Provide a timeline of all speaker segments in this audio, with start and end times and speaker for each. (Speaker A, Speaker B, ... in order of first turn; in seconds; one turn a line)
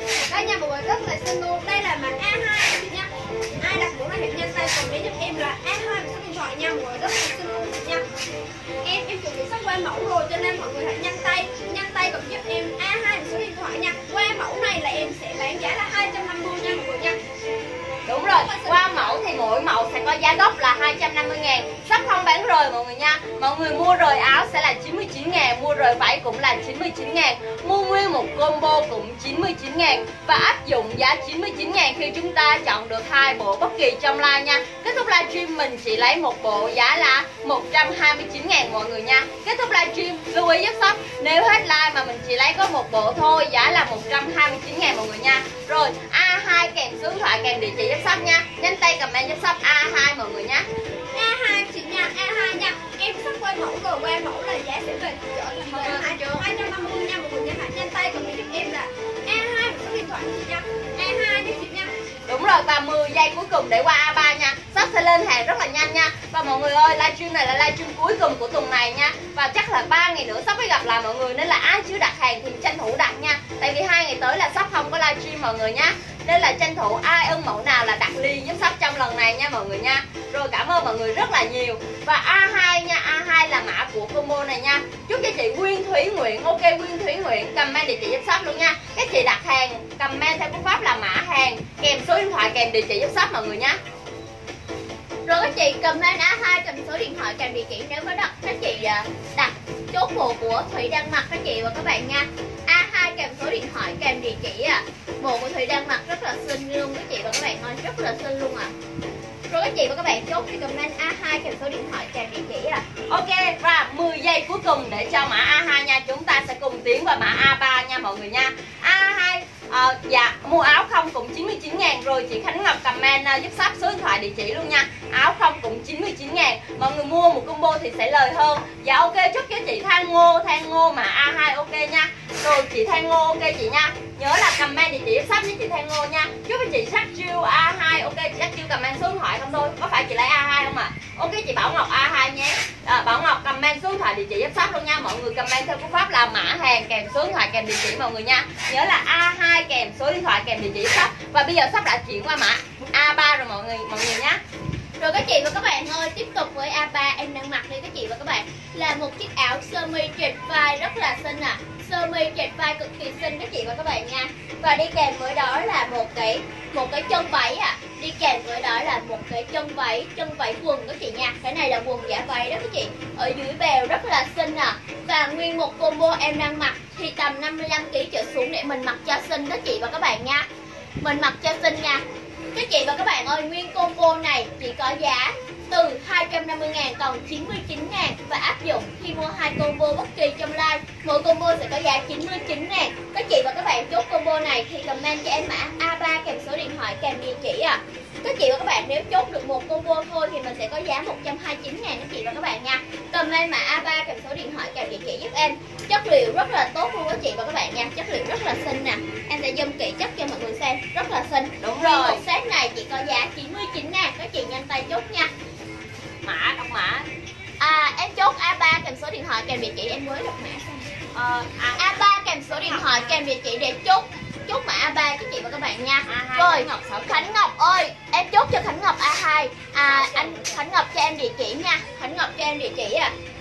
Speaker A: 0.3-8.0
Speaker A: 8.8-17.2
Speaker B: 18.1-50.7
Speaker A: 18.3-19.3
Speaker A: 51.1-61.9
Speaker B: 55.7-56.5
Speaker B: 62.3-93.8
Speaker C: 95.3-108.7
Speaker C: 109.5-112.8
Speaker B: 113.1-154.4
Speaker C: 155.0-180.5
Speaker C: 181.0-182.0
Speaker C: 182.5-215.3
Speaker B: 211.6-212.2
Speaker B: 216.2-217.1
Speaker C: 217.6-220.9
Speaker B: 221.1-223.2
Speaker C: 221.8-233.1
Speaker B: 226.1-227.3
Speaker B: 229.8-230.6